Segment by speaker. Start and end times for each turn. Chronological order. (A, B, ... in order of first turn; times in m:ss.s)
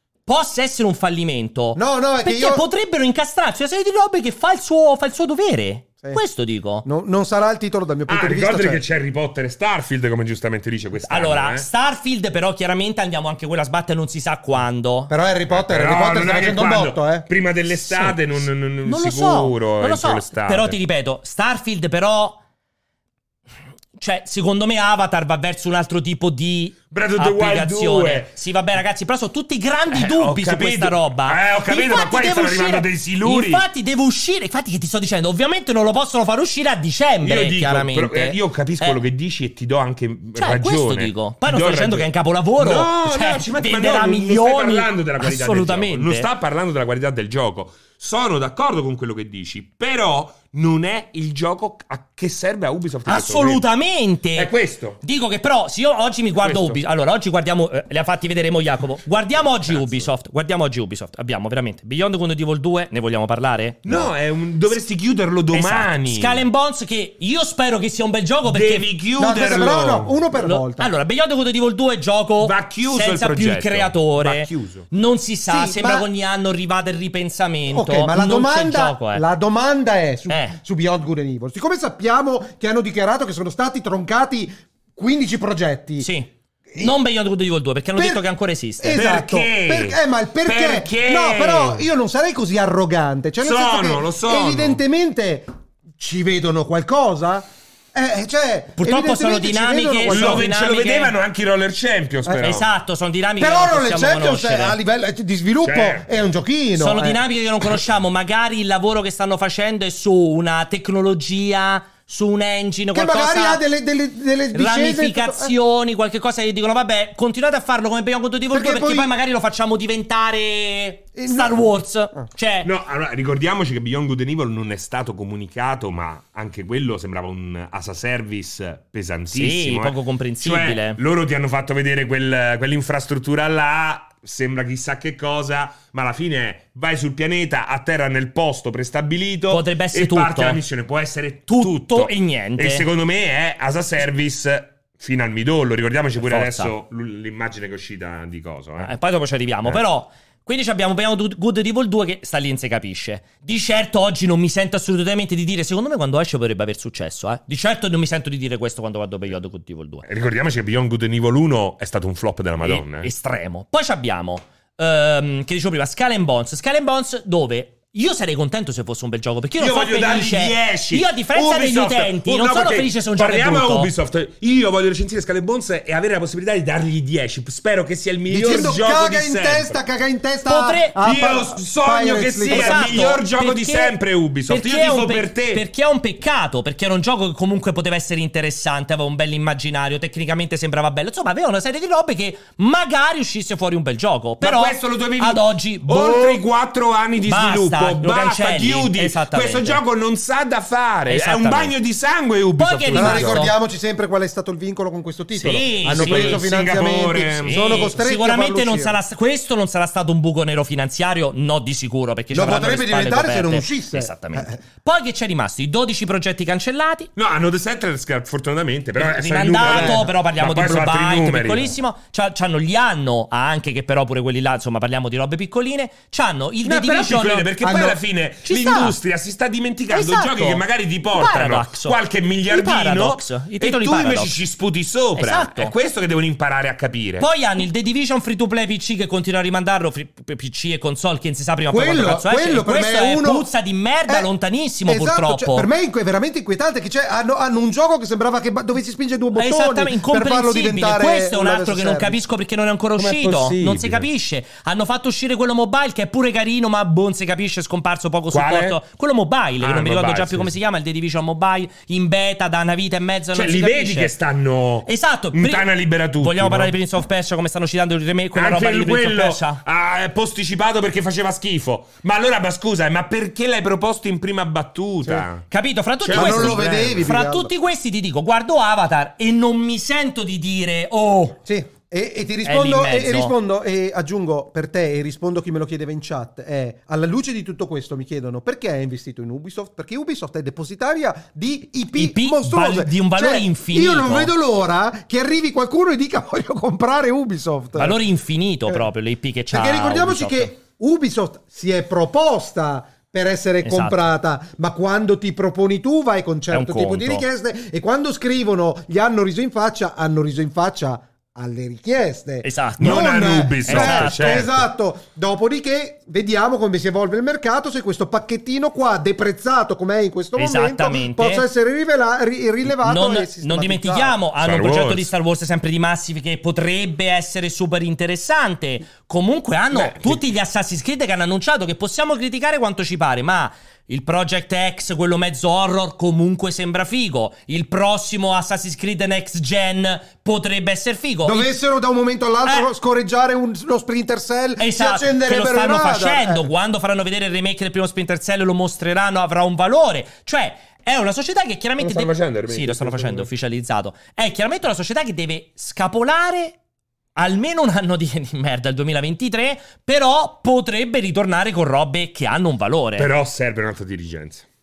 0:00.3-0:06.9 A
0:01.8-0:02.6 B
0:06.8-0:08.8 B
0:08.1-0:11.7 C
0:11.0-0:15.1 A
0:15.1-0:17.3 B
0:15.5-0:20.8 C
0:17.9-0:22.4 A
0:24.0-0:39.0 A
0:26.9-0:28.3 C
0:29.9-0:33.6 C
0:37.2-0:53.6 C
0:40.4-0:46.3 A
0:53.1-0:54.5 A
0:54.4-0:55.0 C
0:55.0-1:04.1 A
0:56.4-0:56.8 C
0:59.7-1:00.1 C
1:03.8-1:06.4 C
1:05.5-1:08.9 A
1:08.5-1:10.1 C
1:09.2-1:10.9 B
1:10.4-1:19.2 A
1:12.4-1:14.9 C
1:15.5-1:16.1 B
1:17.7-1:26.1 B
1:20.3-1:20.6 A
1:26.0-1:29.0 A
1:26.7-1:27.0 B
1:28.0-1:28.2 B
1:28.8-1:40.5 B
1:28.9-1:31.9 C
1:33.4-1:34.8 C
1:38.8-1:41.1 A
1:40.1-1:42.7 C
1:42.4-1:44.8 A
1:43.4-1:47.2 B
1:45.6-1:46.1 C
1:46.8-1:53.6 A
1:52.9-1:55.5 B
1:54.5-2:02.7 A
1:58.5-1:59.1 B
2:01.2-2:02.3 B
2:02.6-2:28.9 C
2:09.3-2:11.0 A
2:19.5-2:20.6 A
2:21.5-2:22.8 A
2:26.2-2:26.7 A
2:28.8-2:40.0 A
2:40.1-2:43.1 C
2:42.6-2:53.9 A
2:49.6-2:59.8 C
2:58.3-3:03.1 B
3:00.5-3:01.0 A
3:01.0-3:05.6 C
3:02.5-3:03.9 A
3:04.5-3:16.4 A
3:14.4-3:23.5 C
3:17.3-3:19.8 A
3:21.1-3:21.7 A
3:22.6-3:23.5 A
3:22.9-3:29.0 B
3:25.3-3:26.5 A
3:25.8-3:27.8 C
3:27.4-3:37.1 A
3:32.3-3:34.6 B
3:37.2-3:41.8 C
3:39.0-3:47.8 A
3:39.6-3:40.0 B
3:46.6-3:57.3 C
3:47.6-3:48.0 B
3:48.4-3:49.0 A
3:49.9-3:52.0 A
3:52.5-3:54.4 A
3:55.2-3:55.7 A
3:57.2-4:05.7 A
4:01.7-4:03.5 B
4:04.9-4:12.2 B
4:09.4-4:24.1 A
4:13.0-4:14.1 C
4:18.3-4:18.8 C
4:19.6-4:20.5 C
4:23.3-4:26.7 C
4:24.9-4:29.6 A
4:28.4-4:35.5 C
4:35.5-4:41.4 A
4:36.0-4:37.1 C
4:36.1-4:37.5 B
4:41.4-4:58.0 B
4:42.4-4:43.3 A
4:52.0-4:54.3 A
4:57.8-5:00.5 A
4:59.5-5:24.2 B
5:03.6-5:04.0 A
5:06.5-5:07.2 A
5:12.4-5:14.5 A
5:12.8-5:14.6 C
5:20.4-5:21.4 A
5:22.7-5:41.5 A
5:24.4-5:25.1 C
5:29.7-5:30.2 C
5:41.2-5:46.5 B
5:44.6-5:56.6 A
5:51.8-5:53.3 C
5:57.2-6:03.1 A
6:03.0-6:04.4 C